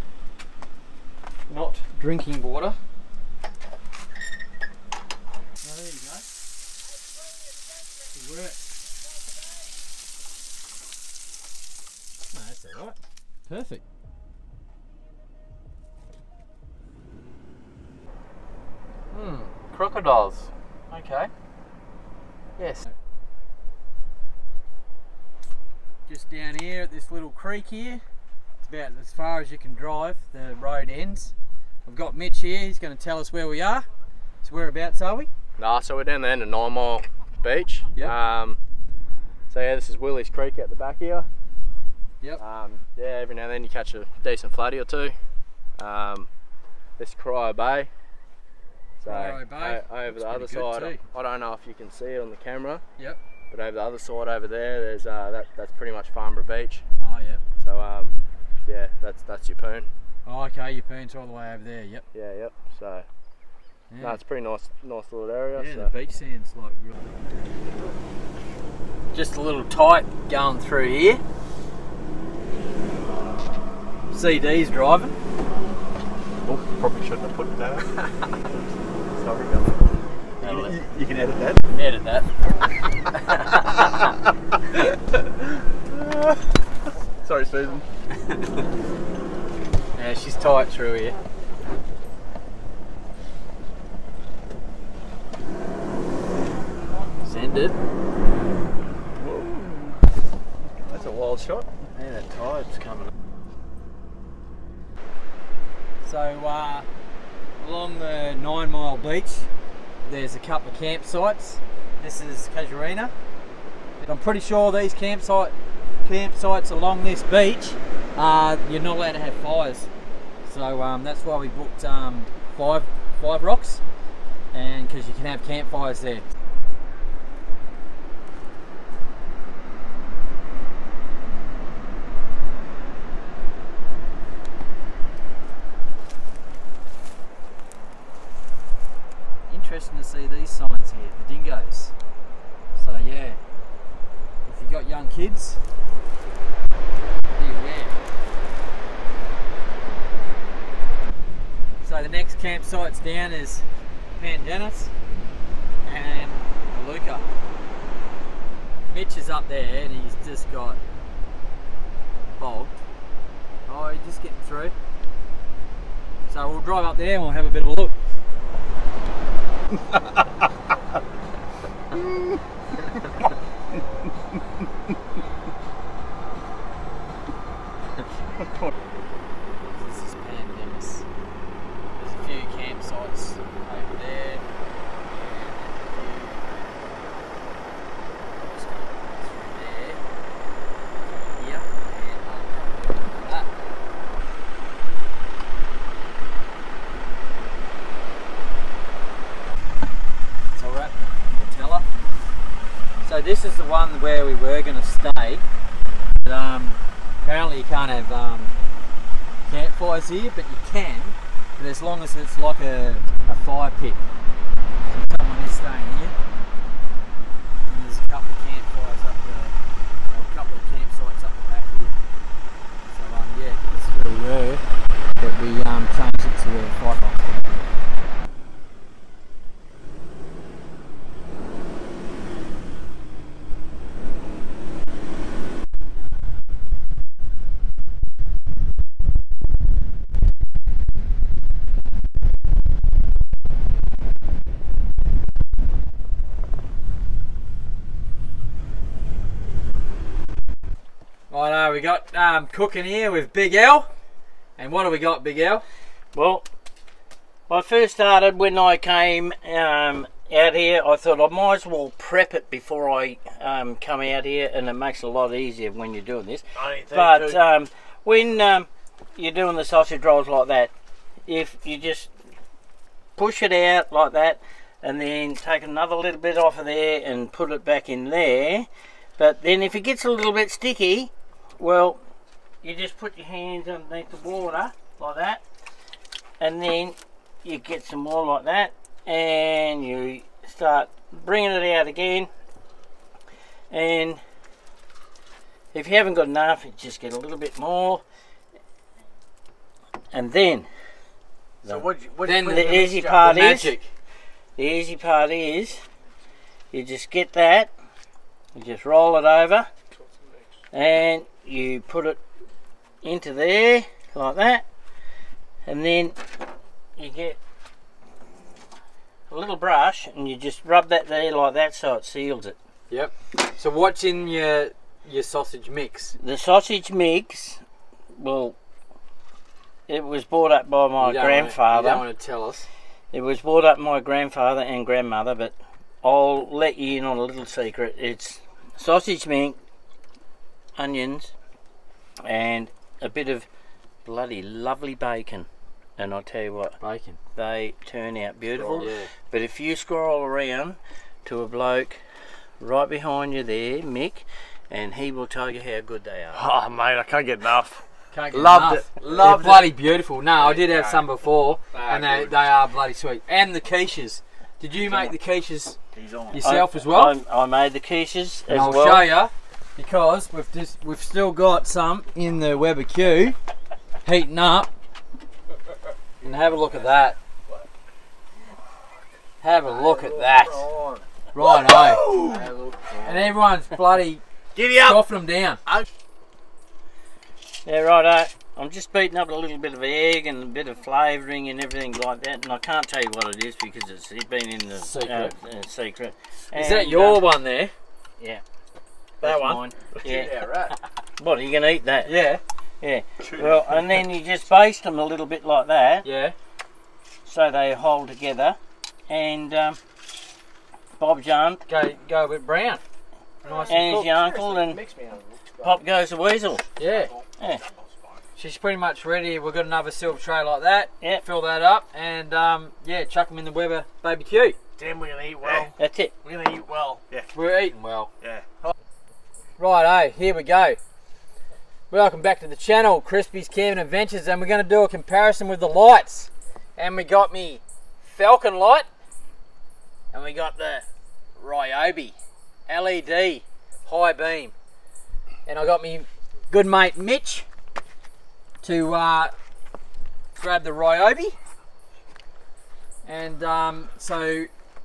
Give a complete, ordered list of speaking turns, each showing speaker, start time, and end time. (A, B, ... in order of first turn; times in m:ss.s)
0:01.5-0:02.8 A
0:05.6-0:06.2 A
0:08.1-0:08.6 A
0:12.3-0:13.8 A
0:19.1-0:21.3 A
0:22.6-0:22.9 A
0:26.1-0:28.0 A
0:28.6-0:31.3 A
0:31.9-0:33.9 A
0:34.4-0:35.3 A
0:35.6-0:38.6 B
0:39.5-0:41.3 B
0:42.4-0:45.2 B
0:45.8-0:46.3 B
0:47.0-0:47.9 B
0:49.0-0:52.8 B
0:49.1-0:51.0 A
0:53.5-0:56.8 B
0:57.0-0:57.4 A
0:57.6-0:59.9 B
1:00.2-1:02.0 A
1:02.1-1:03.0 B
1:03.9-1:04.2 A
1:04.0-1:05.9 B
1:05.6-1:07.0 A
1:09.1-1:11.2 A
1:14.1-1:15.1 A
1:16.4-1:17.9 C
1:19.1-1:19.8 C
1:20.4-1:20.8 A
1:20.6-1:21.6 C
1:21.8-1:22.3 A
1:23.1-1:24.1 A
1:27.2-1:27.8 C
1:30.0-1:31.2 A
1:37.2-1:37.8 A
1:40.9-1:41.6 C
1:42.0-1:43.1 A
1:46.0-1:46.9 A
1:47.6-1:49.5 A
1:50.0-1:53.1 A
1:54.0-1:59.9 A
2:00.4-2:03.8 A
2:04.5-2:06.2 A
2:19.5-2:22.0 A
2:22.8-2:23.4 A
2:24.4-2:25.6 A
2:27.3-2:28.0 A
2:31.8-2:34.9 A
2:35.8-2:37.3 A
2:38.9-2:40.8 A
2:42.4-2:42.8 A
2:43.7-2:44.8 A
2:46.3-2:48.0 A
2:59.7-3:01.1 A
3:02.0-3:04.5 A
3:05.1-3:06.9 A
3:08.4-3:10.0 A
3:11.4-3:13.5 A
3:20.5-3:21.9 A
3:23.0-3:25.4 A
3:26.2-3:28.5 A
3:29.4-3:34.0 A
3:34.9-3:36.2 A
3:37.7-3:39.6 A
3:40.1-3:42.0 A
3:42.9-3:44.6 A
3:45.2-3:47.4 A
4:11.3-4:13.9 A
4:14.6-4:15.6 A
4:16.1-4:16.4 D
4:17.5-4:30.7 D
4:26.6-4:27.4 E
4:31.3-4:32.1 D
4:33.2-4:42.0 D
4:42.6-4:45.4 D
4:46.4-4:52.3 D
4:53.7-4:54.2 D
4:55.7-4:58.0 D
5:00.1-5:00.6 D
5:01.6-5:03.8 D
5:01.6-5:02.4 E
5:02.2-5:03.9 A
5:04.6-5:05.8 D
5:06.7-5:07.7 D
5:08.6-5:09.7 D
5:10.7-5:12.2 D
5:13.0-5:14.6 D
5:15.6-5:16.2 D
5:17.0-5:17.4 D
5:19.3-5:22.6 D
5:22.9-5:26.2 A
5:26.2-5:27.6 D
5:28.2-5:28.6 D
5:29.9-5:32.0 D
5:31.0-5:32.7 A
5:33.1-5:39.6 D
5:40.8-5:41.3 D
5:42.2-5:43.5 D
5:44.0-5:45.5 D
5:46.0-5:46.8 D
5:46.8-5:47.2 A
5:47.4-5:52.0 D
5:48.5-5:48.9 B
5:48.8-5:49.1 A
5:52.6-5:56.4 D
5:56.4-5:57.8 E
5:58.1-6:05.8 A
5:58.3-5:59.6 E
6:00.6-6:01.0 E
6:01.8-6:02.2 E
6:06.0-6:09.1 D
6:06.3-6:07.1 A
6:08.5-6:13.4 A
6:14.0-6:14.7 A
6:16.2-6:17.2 A
6:19.4-6:20.7 A
6:19.8-6:21.0 E
6:21.3-6:22.4 A
6:22.0-6:23.1 E
6:23.0-6:25.6 A
6:27.6-6:37.2 D
6:34.8-6:35.3 A
6:36.5-6:37.7 A
6:39.2-6:40.5 D
6:39.2-6:39.6 A
6:41.2-6:42.2 D
6:42.0-6:42.4 A
6:42.8-6:46.0 D
6:46.0-6:46.3 A
6:47.2-6:48.6 D
6:49.1-6:49.8 D
6:51.0-6:51.6 D
6:51.7-6:52.8 A
6:53.4-6:55.8 B
6:53.6-6:54.8 D
6:55.6-6:56.7 D
6:56.8-6:57.1 A
6:57.4-6:57.7 D
6:58.4-7:04.6 A
7:04.8-7:05.7 E
7:05.4-7:05.7 C
7:05.8-7:06.2 D
7:06.2-7:07.0 E
7:06.9-7:07.3 C
7:07.3-7:08.1 A
7:08.2-7:08.5 C
7:09.6-7:10.8 A
7:11.9-7:18.9 A
7:20.1-7:20.9 A
7:21.4-7:22.2 A
7:22.7-7:24.5 A
7:25.5-7:27.5 A
7:28.6-7:29.3 A
7:30.3-7:31.4 A
7:33.0-7:34.5 A